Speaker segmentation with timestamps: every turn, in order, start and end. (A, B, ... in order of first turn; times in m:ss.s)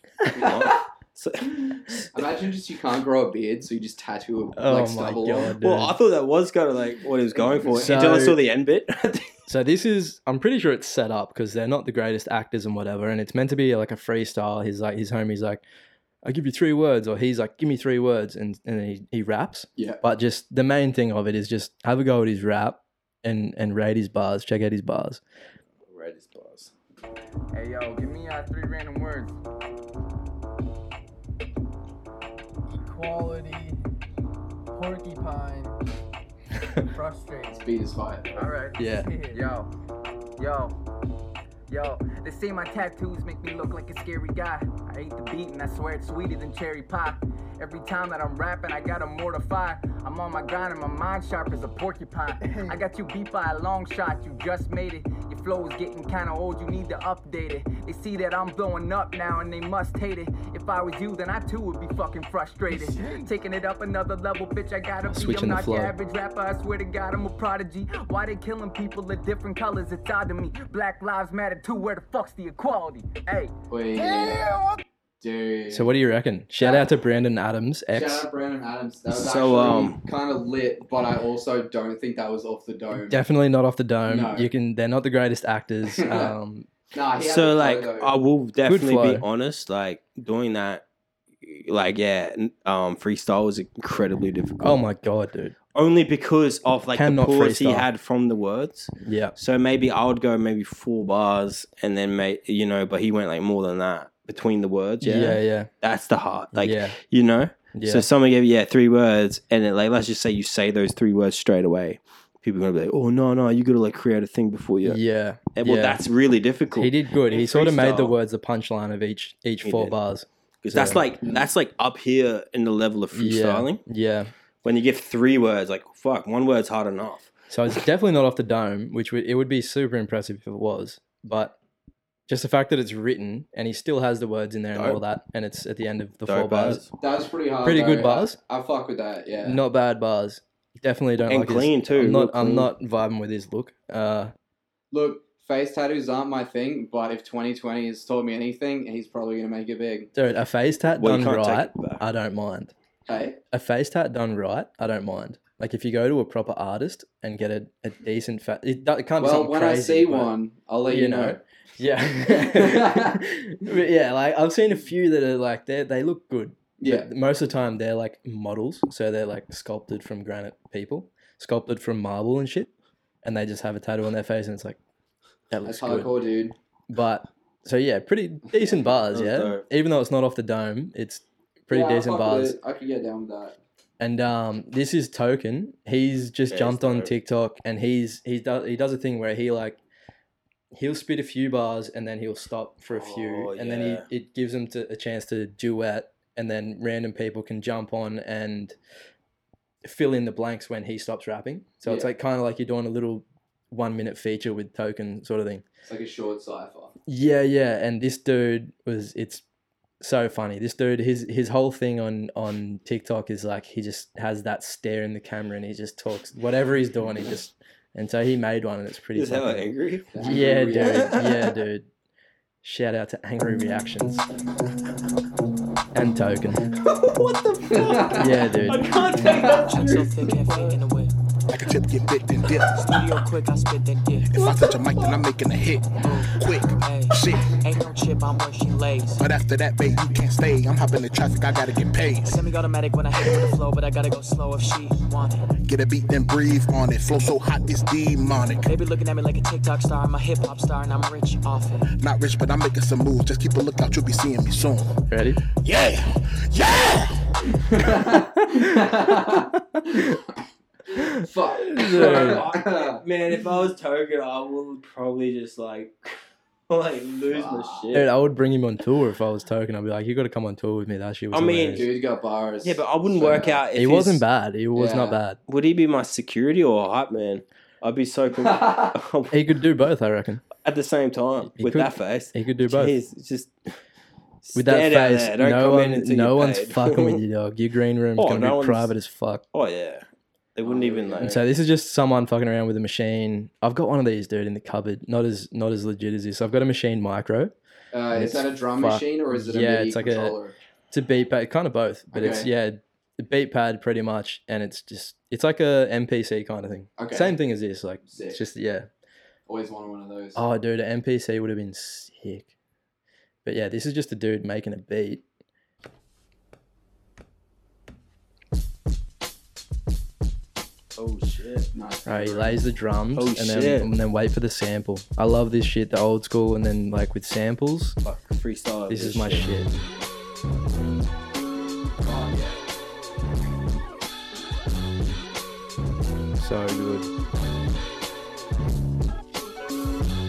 0:00.3-0:02.2 A
0:00.4-0:00.8 B
0:02.1-0:05.5 B
0:04.6-0:06.0 C
0:05.6-0:09.3 A
0:07.7-0:08.4 C
0:09.5-0:15.6 C
0:16.2-0:25.2 C
0:19.8-0:20.0 B
0:25.9-0:26.7 A
0:27.5-0:29.4 D
0:32.7-0:33.8 D
0:34.7-0:35.7 D
0:36.8-0:37.6 D
0:37.5-0:38.5 B
0:38.3-0:39.7 D
0:38.8-0:39.1 C
0:40.4-0:40.7 D
0:41.7-1:13.5 D
0:52.4-0:52.8 C
1:05.1-1:05.9 C
1:13.7-1:14.5 B
1:15.2-1:15.9 B
1:15.7-1:18.2 C
1:16.6-1:16.9 B
1:17.9-1:23.2 B
1:19.1-1:20.0 A
1:22.9-1:26.7 C
1:24.1-1:24.5 B
1:25.9-1:26.3 B
1:26.9-1:28.1 B
1:27.2-1:30.8 A
1:28.6-1:29.2 C
1:31.4-1:34.8 A
1:34.6-1:35.5 C
1:35.7-1:55.0 A
1:36.9-1:37.9 C
1:39.0-1:39.4 C
1:45.0-1:45.7 C
1:46.5-1:47.0 C
1:47.7-1:48.1 C
1:54.8-1:56.0 C
1:55.5-1:58.2 A
1:56.7-2:01.0 C
1:59.6-2:00.0 A
2:00.6-2:03.8 A
2:01.2-2:01.5 B
2:03.1-2:04.3 C
2:04.6-2:07.3 A
2:07.5-2:11.5 C
2:12.3-2:16.8 C
2:14.7-2:15.0 A
2:16.2-2:16.9 A
2:17.0-2:19.6 B
2:17.6-2:18.4 C
2:19.4-2:24.3 C
2:21.3-2:22.7 A
2:24.9-2:30.1 B
2:30.1-2:32.7 C
2:30.9-2:32.0 A
2:33.1-2:33.4 B
2:33.5-2:40.3 C
2:39.2-2:41.4 B
2:40.9-2:52.7 C
2:42.3-2:43.2 B
2:46.8-2:47.1 B
2:53.2-2:54.8 C
2:55.5-2:56.1 C
2:55.6-2:56.5 B
2:56.9-3:02.6 C
2:59.1-2:59.6 A
3:01.7-3:03.6 B
3:04.0-3:09.8 C
3:06.5-3:07.1 A
3:10.7-3:18.7 C
3:12.9-3:14.0 A
3:19.8-3:25.6 C
3:25.8-3:26.9 B
3:27.1-3:29.4 C
3:30.0-3:41.9 C
3:39.1-3:41.6 A
3:40.1-3:41.2 B
3:42.6-3:44.2 C
3:45.9-3:46.7 C
3:46.9-3:50.7 A
3:47.7-3:48.4 B
3:48.1-3:48.9 C
3:49.2-3:49.7 B
3:49.6-3:51.1 E
3:51.5-3:53.2 F
3:52.6-3:54.5 E
3:54.3-3:57.6 F
3:56.0-3:59.2 E
3:59.2-4:02.4 F
4:02.2-4:05.4 E
4:03.2-4:03.5 F
4:05.6-4:08.7 F
4:08.6-4:11.9 E
4:12.0-4:15.0 F
4:15.1-4:15.4 C
4:15.6-4:17.8 F
4:17.7-4:20.4 B
4:18.3-4:20.2 C
4:21.0-4:22.4 C
4:21.0-4:23.0 B
4:21.8-4:28.1 A
4:27.3-4:27.9 B
4:27.9-4:31.8 C
4:31.3-4:31.9 A
4:31.7-4:33.6 B
4:32.6-4:34.2 A
4:33.8-4:35.4 C
4:34.8-4:35.2 B
4:35.5-4:39.3 A
4:38.4-4:38.9 B
4:39.3-4:40.4 C
4:40.6-4:43.5 A
4:41.6-4:43.0 C
4:44.4-4:47.2 A
4:44.5-4:49.4 C
4:48.2-4:48.9 A
4:49.5-4:51.4 A
4:50.6-4:51.4 B
4:51.2-4:57.5 C
4:57.9-5:00.5 B
4:58.1-5:00.4 C
5:00.9-5:08.9 C
5:02.1-5:02.5 B
5:07.0-5:07.4 B
5:08.0-5:08.4 B
5:09.5-5:10.4 B
5:10.3-5:12.5 C
5:13.4-5:15.2 C
5:21.0-5:21.7 A
5:21.7-5:22.6 B
5:22.0-5:28.0 C
5:23.1-5:23.9 A
5:28.0-5:29.5 A
5:28.9-5:29.7 C
5:32.0-5:32.6 B
5:36.4-5:37.1 C